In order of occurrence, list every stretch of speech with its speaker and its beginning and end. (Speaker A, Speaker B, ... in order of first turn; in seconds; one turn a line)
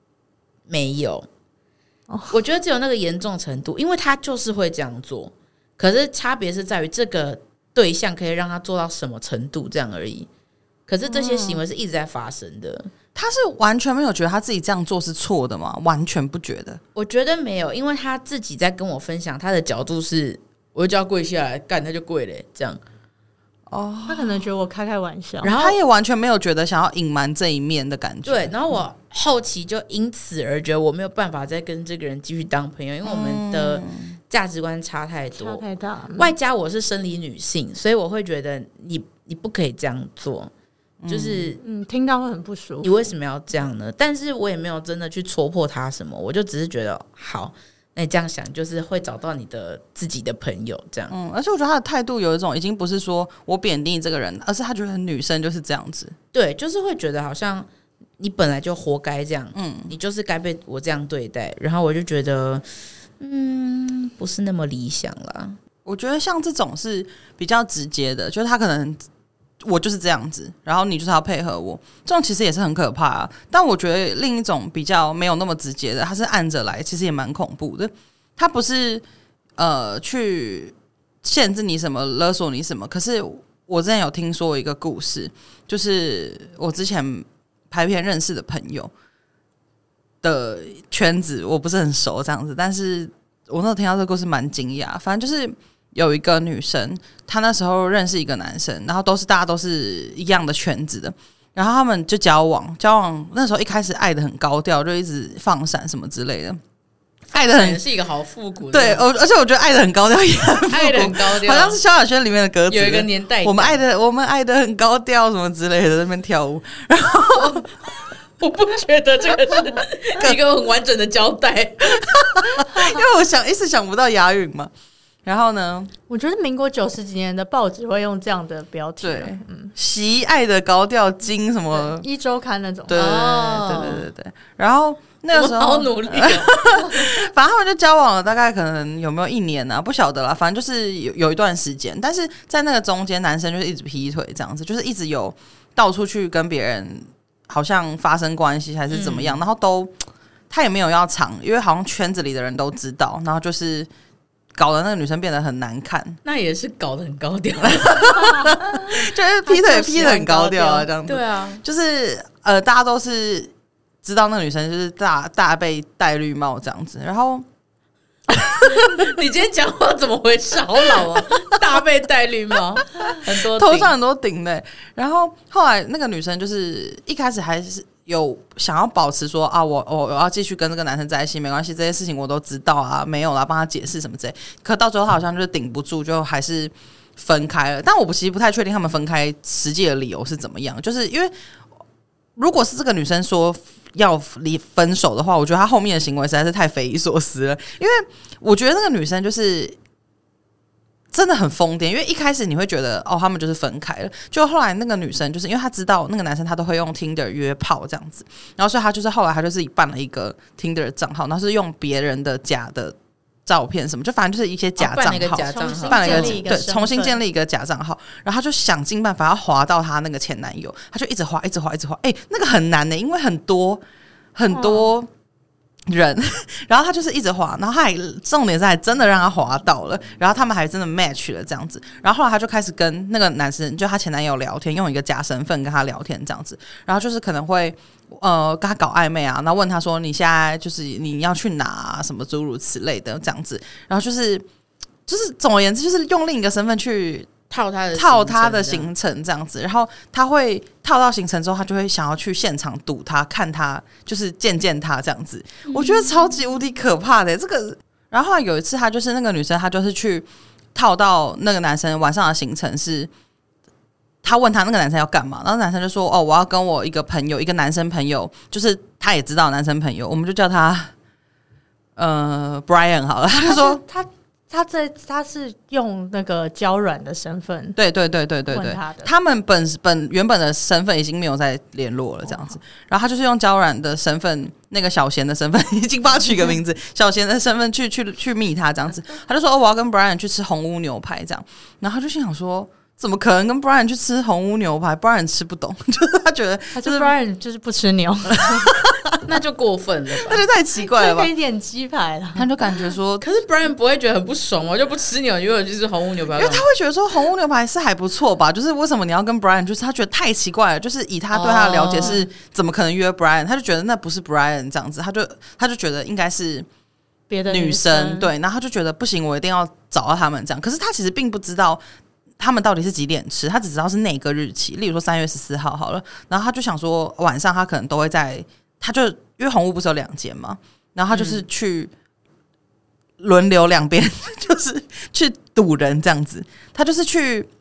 Speaker A: 0.7-1.3
Speaker A: 2.3-10.3
Speaker A: 10.9-12.9
Speaker B: 13.2-16.8
Speaker A: 16.9-22.8
Speaker B: 23.7-24.5
Speaker C: 24.1-25.5
Speaker A: 25.4-25.8
Speaker B: 25.4-28.5
Speaker A: 28.2-35.6
Speaker B: 33.0-34.1
Speaker C: 35.4-36.3
Speaker A: 36.2-40.5
Speaker B: 41.0-41.5
Speaker A: 41.1-41.6
Speaker C: 41.6-43.1
Speaker A: 42.8-51.1
Speaker B: 51.1-56.1
Speaker A: 56.3-57.7
Speaker A: 58.2-62.6
Speaker B: 59.5-59.9
Speaker A: 63.2-65.6
Speaker B: 65.8-69.0
Speaker B: 69.6-79.0
Speaker B: 79.6-88.9
Speaker B: 90.2-106.6
Speaker B: 107.3-107.8
Speaker A: 107.3-109.1
Speaker B: 108.7-117.7
Speaker A: 110.7-111.8
Speaker A: 112.7-113.8
Speaker A: 118.4-122.5
Speaker B: 119.5-120.4
Speaker B: 122.0-124.7
Speaker B: 125.2-125.9
Speaker C: 126.1-129.7
Speaker B: 129.0-132.1
Speaker C: 131.7-133.2
Speaker B: 132.9-149.9
Speaker A: 132.9-134.1
Speaker A: 135.3-137.2
Speaker A: 148.9-149.4
Speaker B: 150.5-153.9
Speaker B: 154.6-156.2
Speaker A: 156.2-158.6
Speaker B: 157.6-163.5
Speaker C: 159.5-160.9
Speaker A: 161.0-161.6
Speaker B: 164.0-167.5
Speaker A: 168.5-173.9
Speaker B: 168.6-169.1
Speaker B: 171.0-171.4
Speaker B: 173.0-191.3
Speaker B: 192.4-199.8
Speaker B: 201.1-223.8
Speaker A: 214.8-216.4
Speaker C: 215.4-217.2
Speaker B: 224.3-225.1
Speaker C: 224.5-224.9
Speaker B: 225.9-244.4
Speaker B: 245.1-247.3
Speaker A: 247.5-248.9
Speaker B: 247.9-263.1
Speaker A: 255.7-256.1
Speaker B: 264.2-270.9
Speaker B: 272.0-273.8
Speaker C: 273.4-277.8
Speaker B: 277.8-297.1
Speaker C: 278.5-279.1
Speaker C: 296.8-298.7
Speaker B: 298.3-299.2
Speaker A: 299.2-300.4
Speaker B: 300.2-301.3
Speaker C: 300.8-302.5
Speaker B: 302.4-303.2
Speaker A: 303.2-306.6
Speaker B: 306.3-316.7
Speaker A: 311.3-312.2
Speaker C: 317.3-318.3
Speaker B: 317.5-321.8
Speaker B: 322.4-331.9
Speaker B: 333.2-337.5